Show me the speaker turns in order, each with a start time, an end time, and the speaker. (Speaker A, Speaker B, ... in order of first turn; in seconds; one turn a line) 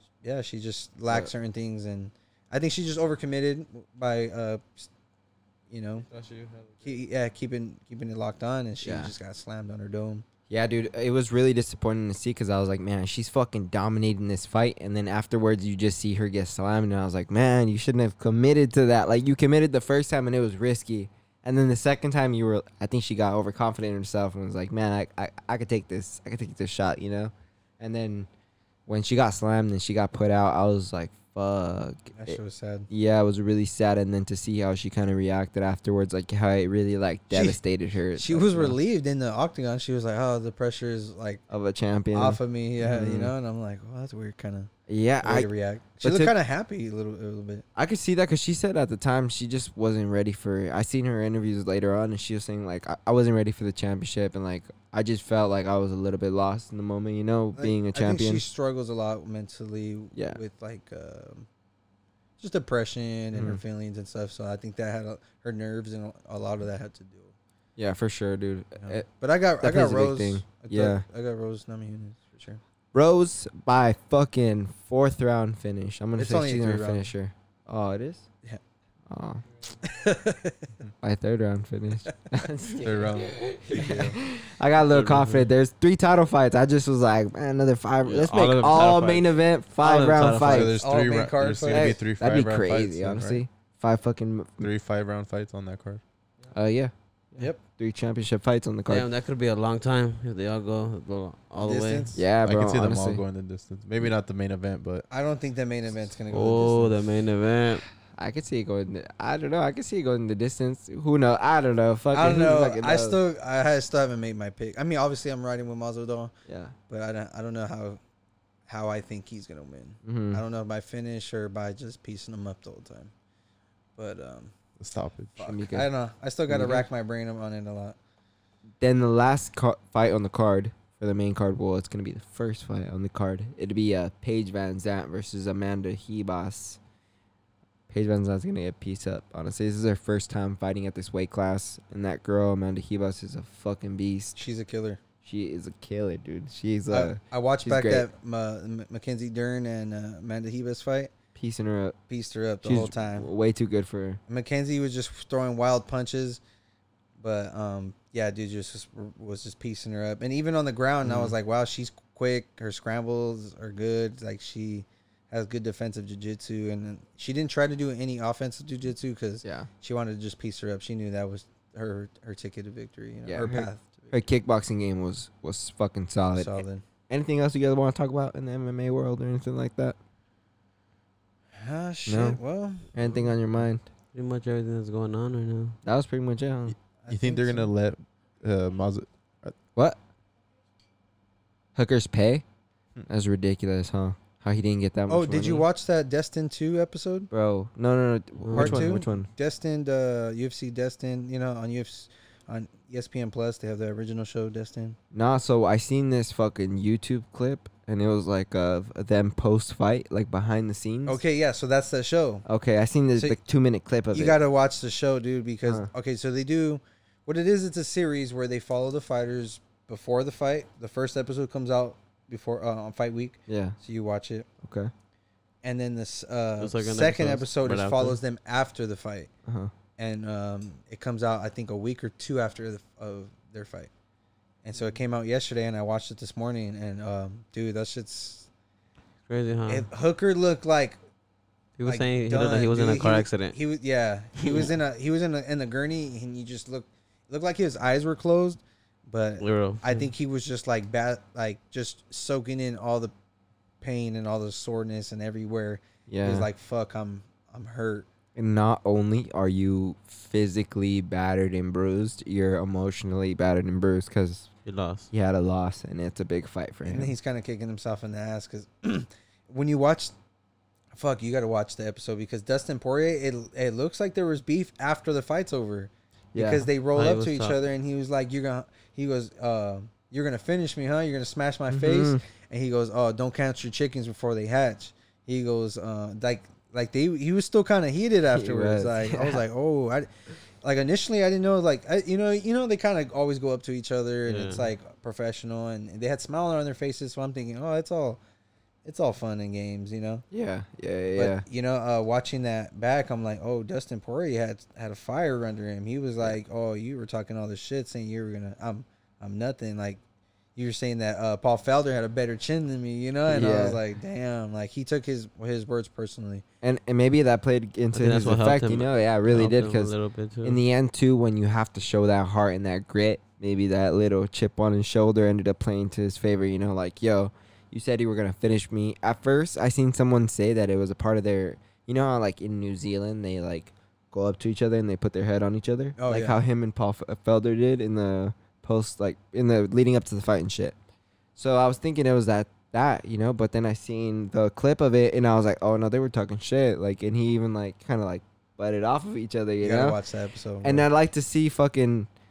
Speaker A: 0.2-4.9
Speaker A: 5.7-6.1
Speaker B: 6.3-6.7
Speaker A: 6.8-10.2
Speaker C: 8.8-9.1
Speaker C: 10.5-28.3
Speaker C: 28.9-32.4
Speaker A: 32.1-32.9
Speaker C: 32.9-38.8
Speaker A: 37.3-37.6
Speaker A: 38.1-41.4
Speaker C: 41.5-43.3
Speaker A: 42.1-44.7
Speaker C: 44.9-45.5
Speaker A: 45.2-47.6
Speaker C: 46.0-46.3
Speaker C: 47.8-58.4
Speaker A: 57.5-61.5
Speaker C: 60.1-60.4
Speaker A: 62.4-67.3
Speaker C: 63.3-63.6
Speaker C: 67.8-69.0
Speaker A: 68.8-72.6
Speaker C: 69.6-71.0
Speaker C: 72.9-78.2
Speaker A: 76.2-77.1
Speaker C: 79.1-79.4
Speaker A: 79.8-80.7
Speaker C: 81.0-90.8
Speaker D: 82.8-84.1
Speaker A: 83.7-84.1
Speaker B: 84.9-85.5
Speaker B: 88.0-90.7
Speaker D: 90.3-93.4
Speaker A: 90.7-92.0
Speaker C: 91.7-94.7
Speaker D: 94.6-96.0
Speaker C: 96.5-99.1
Speaker B: 98.9-102.2
Speaker A: 101.6-102.2
Speaker C: 102.1-103.2
Speaker D: 102.4-105.0
Speaker A: 105.1-106.9
Speaker B: 106.3-107.8
Speaker C: 108.1-113.2
Speaker A: 112.1-116.3
Speaker C: 116.5-116.7
Speaker A: 116.9-118.0
Speaker A: 118.7-123.1
Speaker C: 120.0-120.4
Speaker A: 124.0-124.5
Speaker D: 124.8-125.4
Speaker A: 125.4-128.0
Speaker C: 125.4-125.9
Speaker C: 126.5-126.8
Speaker C: 128.8-136.8
Speaker C: 137.9-144.4
Speaker A: 144.3-145.0
Speaker C: 145.2-148.1
Speaker A: 146.9-151.1
Speaker C: 151.3-152.0
Speaker A: 152.1-153.3
Speaker C: 152.6-154.2
Speaker A: 154.3-156.4
Speaker A: 157.2-174.2
Speaker C: 161.0-161.4
Speaker C: 169.4-169.7
Speaker C: 173.2-180.0
Speaker A: 176.3-176.8
Speaker A: 181.6-183.2
Speaker C: 182.1-182.4
Speaker C: 182.9-183.8
Speaker B: 184.1-185.8
Speaker C: 185.8-186.8
Speaker A: 187.0-187.7
Speaker D: 187.1-189.5
Speaker C: 191.7-192.4
Speaker C: 193.1-195.7
Speaker A: 195.1-197.3
Speaker C: 197.3-199.3
Speaker B: 198.4-198.9
Speaker A: 198.5-205.0
Speaker C: 205.1-211.2
Speaker A: 211.1-212.4
Speaker C: 212.4-214.4
Speaker A: 214.1-224.5
Speaker C: 223.5-223.8
Speaker C: 224.6-224.9
Speaker A: 225.6-229.3
Speaker B: 226.6-228.2
Speaker C: 229.4-229.7
Speaker A: 230.0-233.9
Speaker A: 234.6-238.5
Speaker B: 239.3-239.9
Speaker A: 239.7-241.0
Speaker B: 241.8-243.6
Speaker A: 241.8-253.1
Speaker B: 249.4-250.0
Speaker A: 253.8-258.1
Speaker C: 256.1-256.5
Speaker C: 258.3-264.5
Speaker B: 264.6-265.1
Speaker C: 265.1-267.1
Speaker A: 266.8-270.1
Speaker A: 270.9-290.1
Speaker C: 276.3-276.7
Speaker B: 276.9-277.6
Speaker C: 281.7-282.2
Speaker C: 288.3-289.4
Speaker A: 290.6-298.2
Speaker B: 294.2-294.6
Speaker A: 298.8-300.2
Speaker C: 300.3-301.4
Speaker A: 301.1-310.0
Speaker A: 310.6-316.4
Speaker C: 313.3-313.8
Speaker C: 316.6-319.9
Speaker B: 317.9-320.6
Speaker C: 320.4-340.8
Speaker A: 336.0-336.4
Speaker C: 341.4-350.0
Speaker A: 349.6-350.9
Speaker C: 350.6-352.1